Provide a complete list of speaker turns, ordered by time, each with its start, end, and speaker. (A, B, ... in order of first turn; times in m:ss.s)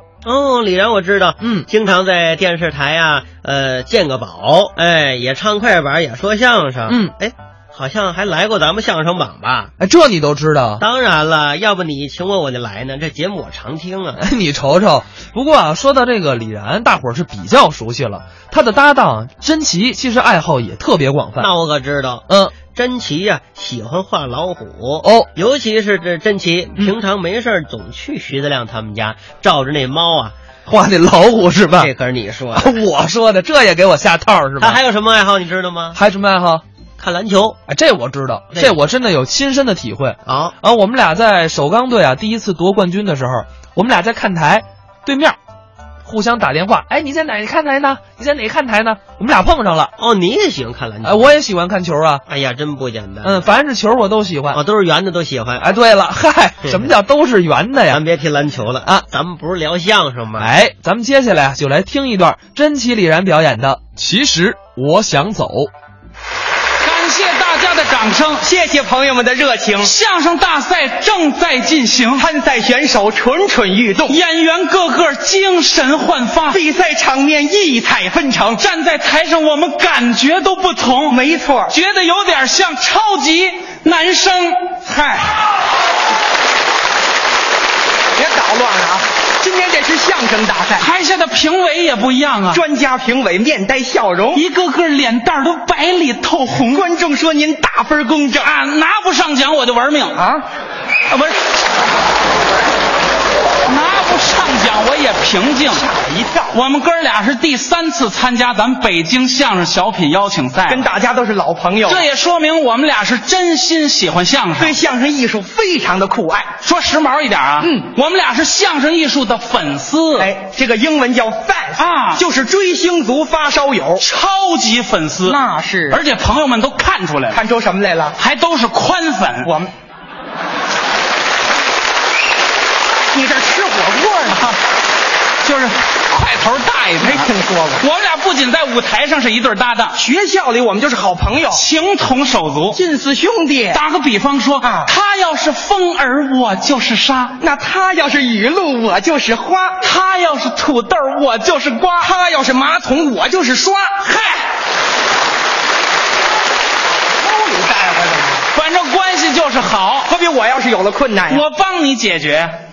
0:00.2-0:09.7 A
0:01.4-0:01.7 B
0:06.9-0:07.1 B
0:09.8-0:10.8 B
0:10.8-0:14.2 A
0:14.2-0:21.5 B
0:21.4-0:30.4 A
0:22.3-0:22.6 B
0:25.0-0:25.3 B
0:30.7-0:31.9 B
0:31.8-0:32.7 A
0:32.6-0:34.8 B
0:34.6-0:36.0 A
0:36.0-0:36.6 B
0:37.0-0:37.6 A
0:37.7-0:45.4 B
0:40.2-0:40.6 A
0:46.0-0:49.9 B
0:50.0-0:51.4 A
0:51.0-0:52.2 B
0:52.3-0:53.4 A
0:53.2-0:54.6 B
0:54.5-0:55.7 A
0:55.6-0:58.0 B
0:56.6-0:56.9 A
0:57.9-1:00.5 A
1:00.4-1:05.7 B
1:06.8-1:08.5 C
1:08.4-1:09.9 D
1:09.8-1:12.3 C
1:12.2-1:14.2 D
1:14.1-1:16.6 C
1:16.5-1:18.6 D
1:18.6-1:24.7 C
1:21.1-1:21.8 D
1:24.9-1:25.3 D
1:28.2-1:30.9 D
1:30.8-1:32.6 C
1:32.5-1:34.4 D
1:34.3-1:36.9 C
1:36.7-1:38.5 D
1:38.4-1:40.2 C
1:40.2-1:40.4 D
1:41.1-1:41.4 C
1:43.6-1:45.8 C
1:45.7-1:46.6 D
1:46.5-1:50.9 C
1:50.7-1:52.0 D
1:51.8-1:54.8 C
1:54.6-1:56.5 D
1:56.6-2:00.3 C
1:57.6-1:57.9 D
2:00.2-2:04.1 D
2:01.8-2:02.2 C
2:04.0-2:07.4 C
2:05.3-2:06.0 D
2:07.3-2:08.2 D
2:08.2-2:09.5 C
2:09.4-2:09.7 D
2:13.1-2:14.6 D
2:14.3-2:14.6 C
2:15.4-2:20.0 C
2:17.0-2:17.8 D
2:20.0-2:21.6 D
2:21.5-2:22.8 C
2:22.7-2:23.8 D
2:23.7-2:27.4 C
2:24.6-2:24.9 D
2:27.4-2:29.8 D
2:29.8-2:32.1 C
2:32.0-2:34.0 D
2:34.0-2:34.4 C
2:37.2-2:38.5 D
2:38.5-2:40.1 C
2:40.1-2:41.4 D
2:41.3-2:42.5 C